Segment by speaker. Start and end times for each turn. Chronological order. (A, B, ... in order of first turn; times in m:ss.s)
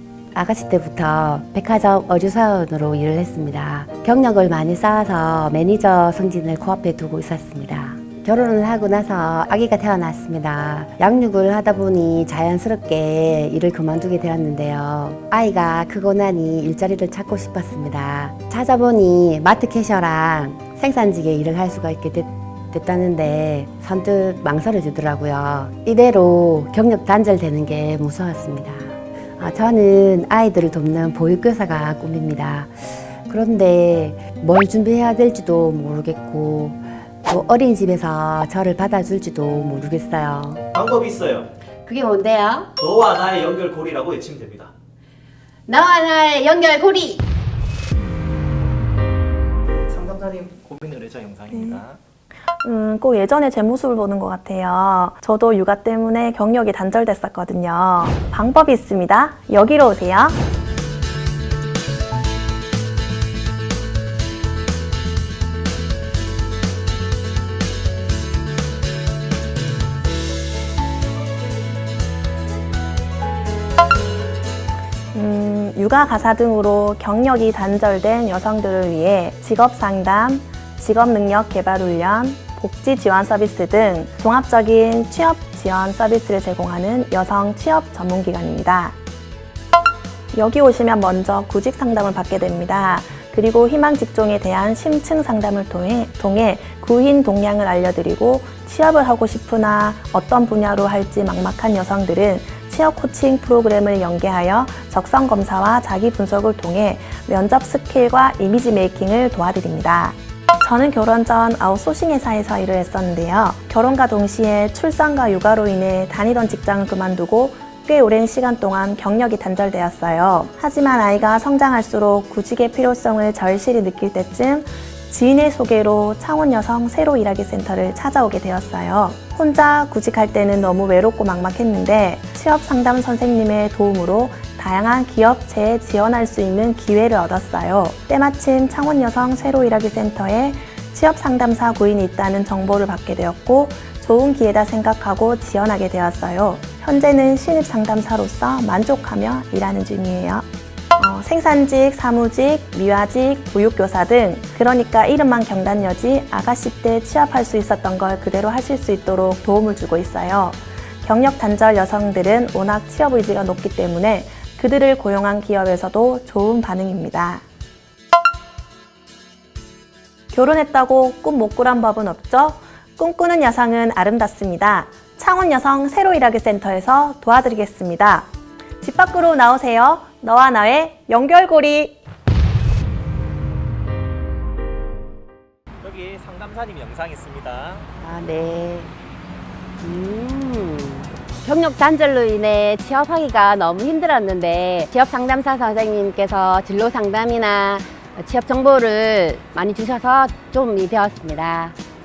0:00.3-0:40.6 A
0:40.7-0:41.5 B
0:41.8-0:42.7 A
0:42.8-0:44.7 B
0:45.7-0:47.3 A
0:49.9-0:52.0 B
0:51.5-0:51.8 C
0:52.6-1:00.4 C
1:15.1-1:29.0 C
1:30.3-2:30.4 C
2:31.0-2:47.4 C
2:50.3-2:58.3 C
2:58.8-3:02.0 C
3:05.8-3:07.9 B
3:08.0-3:08.9 A
3:09.8-3:21.8 A